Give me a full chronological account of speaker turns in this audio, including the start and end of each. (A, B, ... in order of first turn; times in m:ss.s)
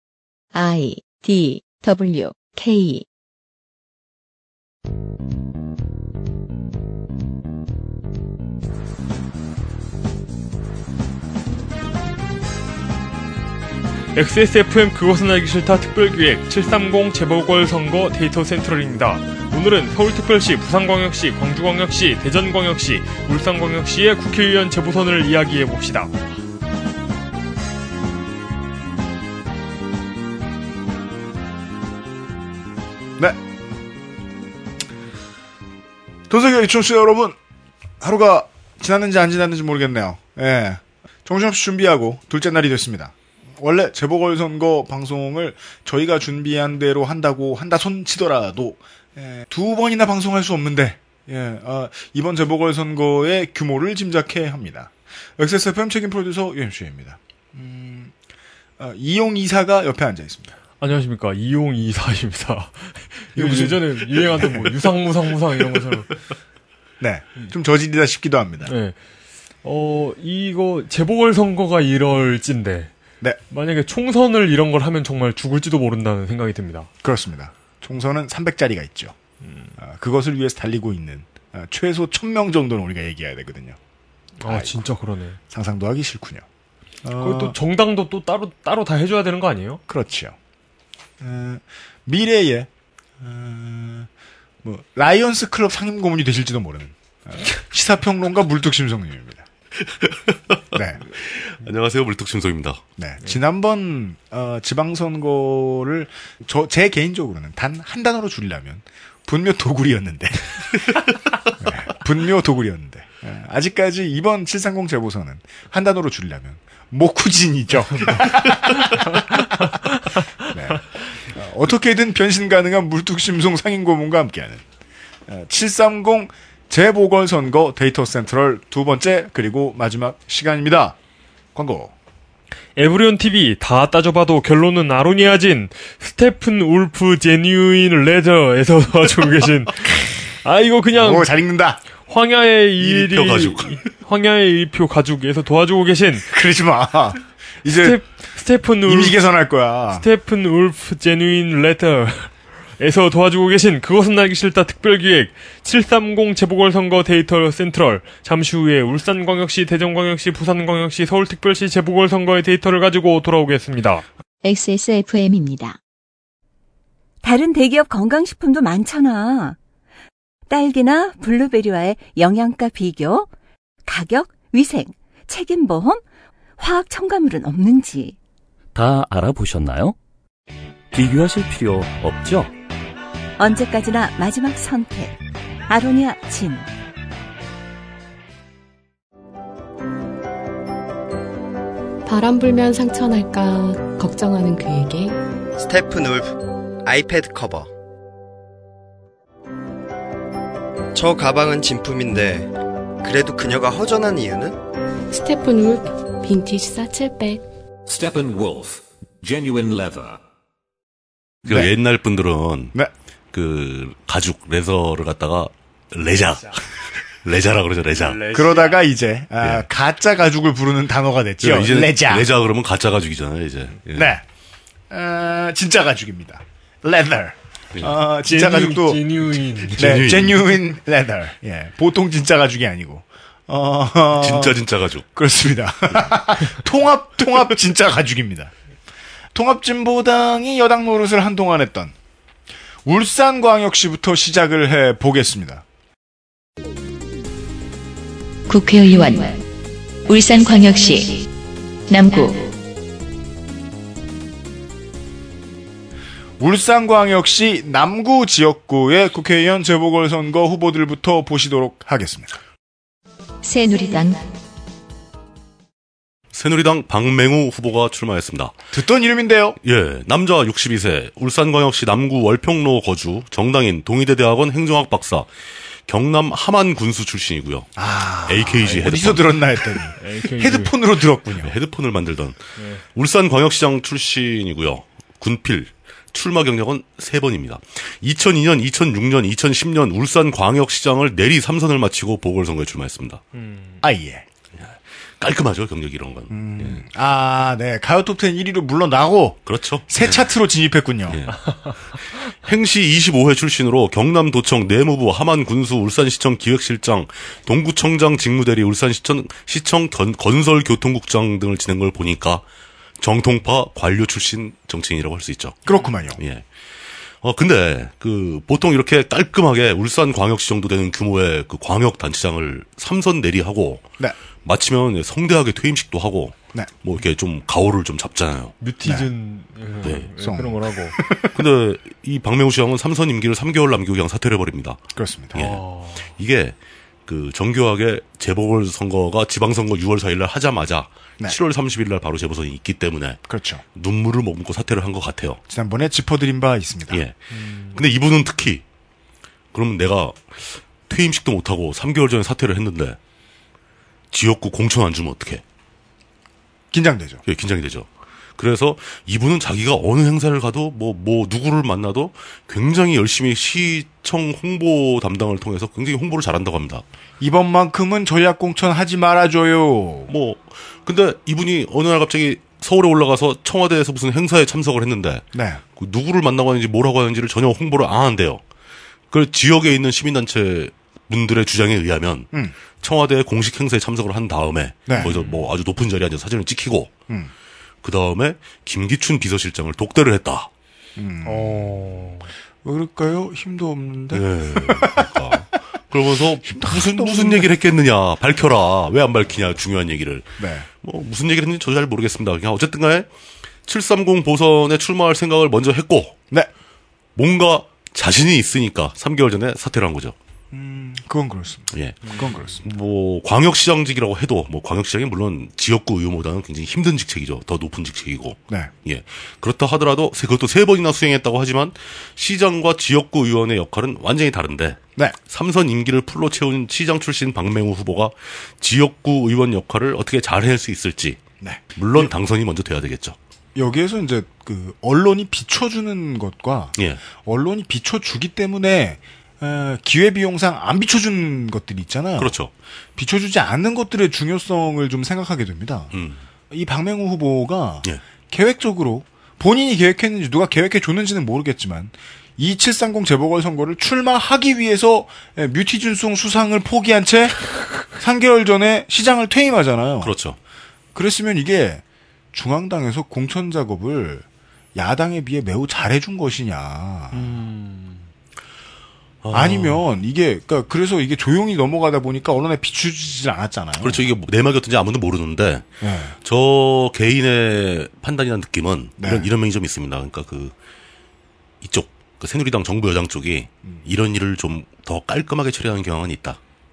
0:00.5-0:03.0 A
0:14.2-0:26.2 B
0:36.3-0:37.4 C
0:38.0-0:58.1 C
0:58.8-1:00.6 C
1:00.8-1:06.1 B
1:03.4-1:04.7 C
1:07.0-1:08.7 C
1:08.7-1:09.0 B
1:09.6-1:12.9 B
1:13.5-1:16.9 B
1:17.0-1:19.2 C
1:19.4-1:19.7 B
1:19.8-1:23.8 C
1:24.4-1:25.4 B
1:24.4-1:24.8 C
1:25.5-1:26.4 C
1:27.0-1:27.6 C
1:27.2-1:29.8 B
1:29.9-1:30.4 C
1:31.2-1:32.7 C
1:33.2-1:34.1 C
1:34.6-1:39.4 C
1:39.9-1:40.6 D
1:40.7-1:41.0 C
1:41.2-1:42.8 D
1:43.0-1:50.8 C
1:51.6-1:59.4 C
2:00.5-2:04.6 C
2:05.3-2:11.0 C
2:11.6-2:11.9 C
2:12.8-2:21.3 B
2:20.9-2:21.8 C
2:22.1-2:26.3 B
2:22.8-2:23.8 D
2:26.3-2:28.0 C
2:27.7-2:29.2 B
2:28.8-2:30.0 C
2:30.0-2:44.0 B
2:44.4-2:45.8 A
2:47.2-2:49.6 E
2:50.5-2:53.3 E
2:53.9-2:56.0 E
2:56.6-2:58.2 E
2:58.8-3:00.0 F
3:00.9-3:02.5 F
3:03.4-3:05.2 E
3:05.7-3:06.7 E
3:12.1-3:15.2 G
3:15.6-3:17.7 H
3:20.9-3:24.6 H
3:25.1-3:27.4 G
3:27.9-3:30.2 I
3:31.4-3:32.8 D
3:33.3-3:36.6 D
3:37.2-3:38.2 D
3:38.0-3:38.8 B
3:38.3-3:42.3 C
3:41.4-3:44.2 D
3:43.9-3:44.2 C
3:44.9-3:54.6 C
3:48.3-3:49.9 B
3:49.8-3:50.6 D
3:54.2-3:55.1 D
3:55.2-3:58.5 C
3:59.3-4:01.9 C
4:02.8-4:05.6 C
4:08.5-4:09.4 A
4:10.1-4:11.3 A
4:11.9-4:12.5 A
4:16.4-4:22.4 C
4:23.4-4:24.2 A
4:26.3-4:28.6 D
4:28.7-4:29.6 C
4:29.6-4:35.3 D
4:35.9-4:37.7 D
4:37.8-4:41.5 C
4:38.3-4:39.4 D
4:40.0-4:40.7 B
4:41.4-4:42.4 D
4:42.6-4:42.8 B
4:42.9-4:53.2 D
4:53.4-4:53.8 B
4:53.8-4:54.2 C
4:54.6-4:56.8 D
4:56.3-5:01.2 C
4:59.5-5:00.3 D
5:01.1-5:01.4 D
5:02.4-5:12.4 D
5:13.0-5:15.6 D
5:15.7-5:16.2 C
5:16.2-5:16.4 D
5:17.2-5:23.9 D
5:24.4-5:28.5 D
5:28.6-5:31.0 B
5:29.9-5:31.3 C
5:31.3-5:34.8 D
5:35.0-5:35.4 C
5:35.3-5:35.6 D
5:35.4-5:36.1 B
5:36.2-5:36.6 D
5:37.1-5:43.2 D
5:43.3-5:43.6 C
5:43.8-5:45.4 D
5:45.5-5:47.0 C
5:46.9-5:48.6 D
5:47.3-5:47.8 B
5:49.5-5:53.0 D
5:54.1-5:55.4 D
5:56.7-5:57.2 C
5:57.3-6:06.8 D
6:07.2-6:10.1 C
6:10.1-6:18.4 D
6:15.3-6:15.6 C
6:19.1-6:22.3 D
6:22.8-6:26.9 D
6:25.0-6:25.5 B
6:27.8-6:30.5 D
6:31.0-6:32.1 C
6:31.2-6:32.3 B
6:32.6-6:35.2 C
6:34.1-6:43.1 D
6:36.5-6:37.5 C
6:40.4-6:40.7 C
6:43.7-6:46.2 D
6:47.2-6:50.2 D
6:50.5-6:52.6 C
6:51.7-7:11.2 D
7:11.4-7:12.1 C
7:11.8-7:13.2 D
7:13.6-7:22.4 C
7:22.2-7:22.5 D
7:23.0-7:25.9 C
7:25.9-7:26.2 D
7:26.5-7:40.1 C
7:40.0-7:40.4 D
7:41.0-7:41.8 C
7:42.3-7:47.3 C
7:47.1-7:48.1 B
7:49.2-7:49.8 D
7:49.3-7:54.1 C
7:53.8-7:55.7 D
7:55.8-7:56.2 C
7:56.2-8:00.5 D
7:59.0-7:59.3 C
8:01.6-8:06.4 D